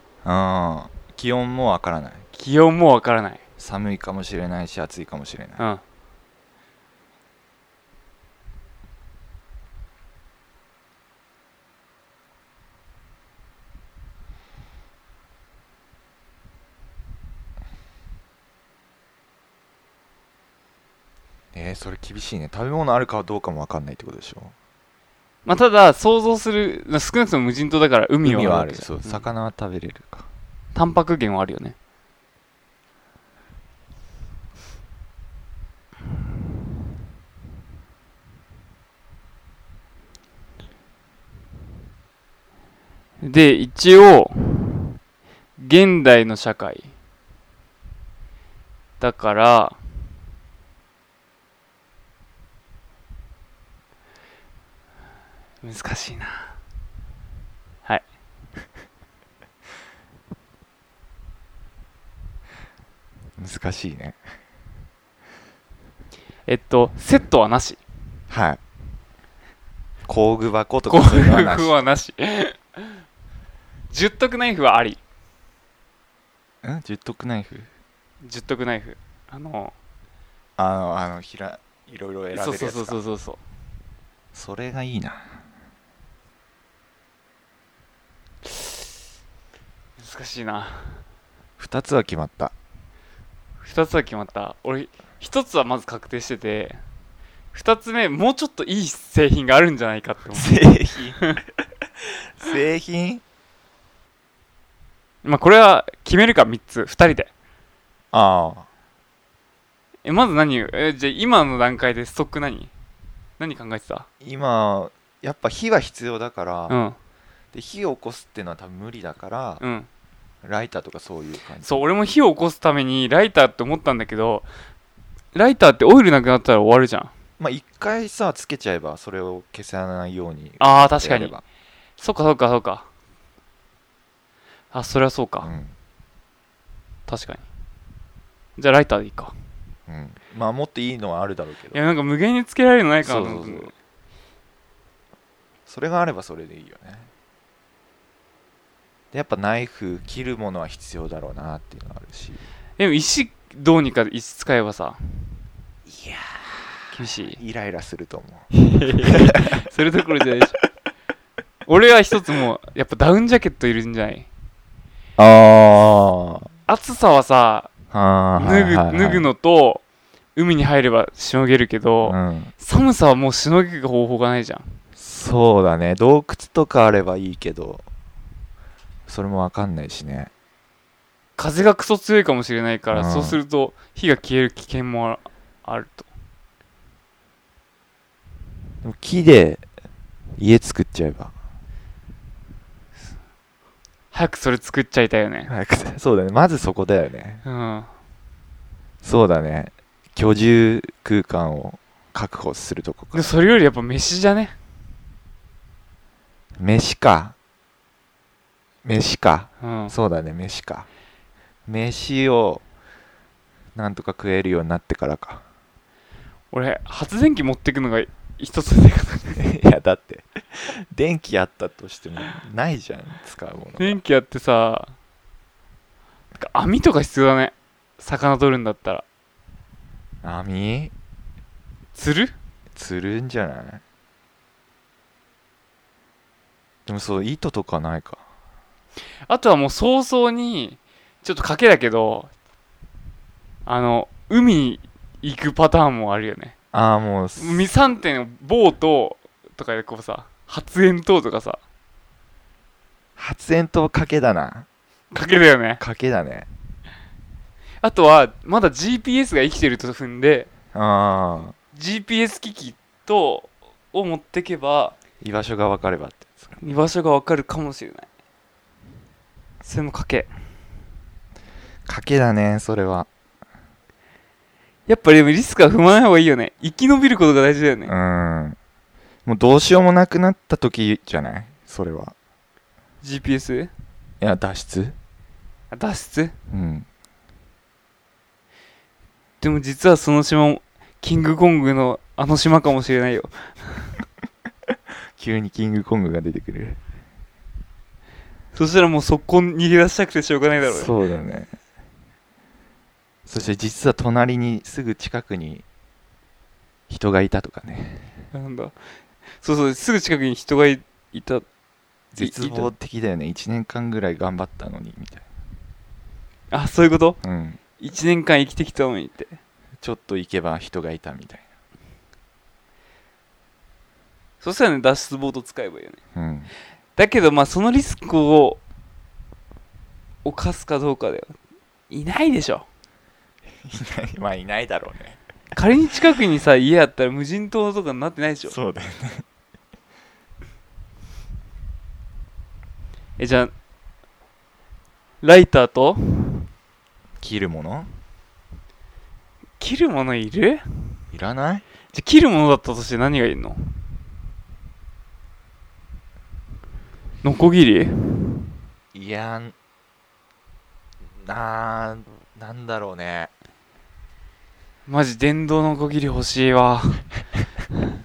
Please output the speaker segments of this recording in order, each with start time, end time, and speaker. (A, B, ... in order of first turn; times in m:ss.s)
0:00.2-0:02.2 A
0:02.3-0:03.4 B
0:03.6-0:05.6 A
0:21.5-0:24.5 A
0:25.4-0:29.2 B
0:28.2-0:30.3 A
0:30.7-0:31.8 B
0:43.2-0:45.0 B
0:45.6-0:46.9 B
0:49.0-0:49.8 B
0:55.6-0:56.5 B
1:03.4-1:04.2 A
1:06.5-1:07.8 B
1:08.3-1:08.6 A
1:10.0-1:11.7 A
1:10.9-1:13.0 B
1:13.9-1:15.0 B
1:16.6-1:17.7 A
1:18.2-1:19.7 B
1:20.6-1:23.0 A
1:22.3-1:23.4 B
1:24.3-1:25.3 A
1:30.0-1:31.0 B
1:31.6-1:32.5 A
1:33.6-1:36.8 B
1:37.5-1:40.6 B
1:40.3-1:41.2 A
1:41.2-1:41.4 B
1:42.0-1:43.2 A
1:45.2-1:47.3 B
1:48.1-1:48.7 A
1:50.0-1:52.7 B
1:53.4-1:54.0 B
1:54.2-1:56.8 A
1:56.7-1:57.0 B
1:57.5-1:59.6 A
1:59.6-1:59.9 B
2:00.4-2:01.8 A
2:01.6-2:04.5 B
2:05.3-2:07.1 B
2:07.4-2:11.4 A
2:10.6-2:11.4 B
2:12.0-2:12.9 B
2:14.7-2:15.5 B
2:15.4-2:15.7 A
2:17.1-2:17.4 B
2:18.6-2:19.3 B
2:19.9-2:21.8 A
2:21.7-2:23.7 B
2:23.0-2:23.7 A
2:25.7-2:27.1 A
2:29.1-2:32.4 A
2:32.8-2:35.3 B
2:35.9-2:38.5 A
2:36.9-2:37.4 B
2:38.5-2:40.6 B
2:39.0-2:39.6 A
2:41.7-2:44.3 B
2:45.2-2:46.5 A
2:46.7-2:47.7 B
2:47.9-2:49.3 A
2:48.4-2:49.8 B
2:50.4-2:54.8 B
2:52.0-2:52.5 A
2:55.0-2:57.8 A
2:59.1-3:00.3 A
3:01.4-3:06.1 B
3:02.9-3:03.4 A
3:08.8-3:09.6 A
3:10.4-3:11.3 A
3:14.1-3:15.5 B
3:15.5-3:17.4 A
3:17.4-3:17.9 B
3:19.0-3:23.3 A
3:23.1-3:24.5 B
3:26.6-3:27.4 A
3:28.8-3:30.9 A
3:29.6-3:29.9 B
3:31.7-3:32.6 A
3:33.7-3:35.4 A
3:36.5-3:39.4 B
3:39.3-3:44.0 A
3:43.8-3:44.9 B
3:46.4-3:49.0 B
3:50.2-3:50.9 A
3:51.9-3:52.3 B
3:52.8-3:53.8 A
3:56.8-3:58.2 A
3:59.3-4:02.3 B
4:03.6-4:06.5 B
4:06.7-4:07.7 A
4:07.4-4:11.6 B
4:13.2-4:14.7 A
4:15.1-4:15.8 B
4:15.8-4:16.5 A
4:17.8-4:20.5 B
4:20.7-4:21.5 A
4:21.7-4:25.0 B
4:25.2-4:26.6 A
4:26.6-4:28.1 B
4:29.6-4:30.3 B
4:31.8-4:33.1 A
4:34.9-4:37.9 B
4:37.9-4:38.6 A
4:39.2-4:42.1 A
4:43.0-4:43.7 B
4:44.2-4:45.0 A
4:45.7-4:46.3 B
4:46.5-4:46.8 A
4:49.4-4:53.9 B
4:55.2-4:56.8 A
4:58.5-5:00.9 B
5:00.6-5:01.5 A
5:03.3-5:05.6 A
5:06.9-5:08.1 A
5:08.3-5:08.7 B
5:09.4-5:11.4 B
5:12.1-5:15.2 A
5:12.2-5:12.7 B
5:16.5-5:17.2 B
5:17.2-5:17.6 A
5:17.8-5:19.3 B
5:19.8-5:21.5 A
5:24.4-5:26.0 B
5:26.1-5:26.5 A
5:27.0-5:28.6 B
5:30.2-5:31.4 B
5:31.9-5:32.7 B
5:33.6-5:35.2 A
5:35.5-5:38.6 B
5:38.4-5:39.2 A
5:43.2-5:43.5 B
5:45.2-5:46.5 B
5:47.2-5:47.9 A
5:49.6-5:51.0 B
5:51.1-5:51.6 A
5:51.9-5:53.8 B
5:57.2-5:58.4 B
5:58.9-5:59.5 A
6:01.2-6:03.3 A
6:04.9-6:07.0 B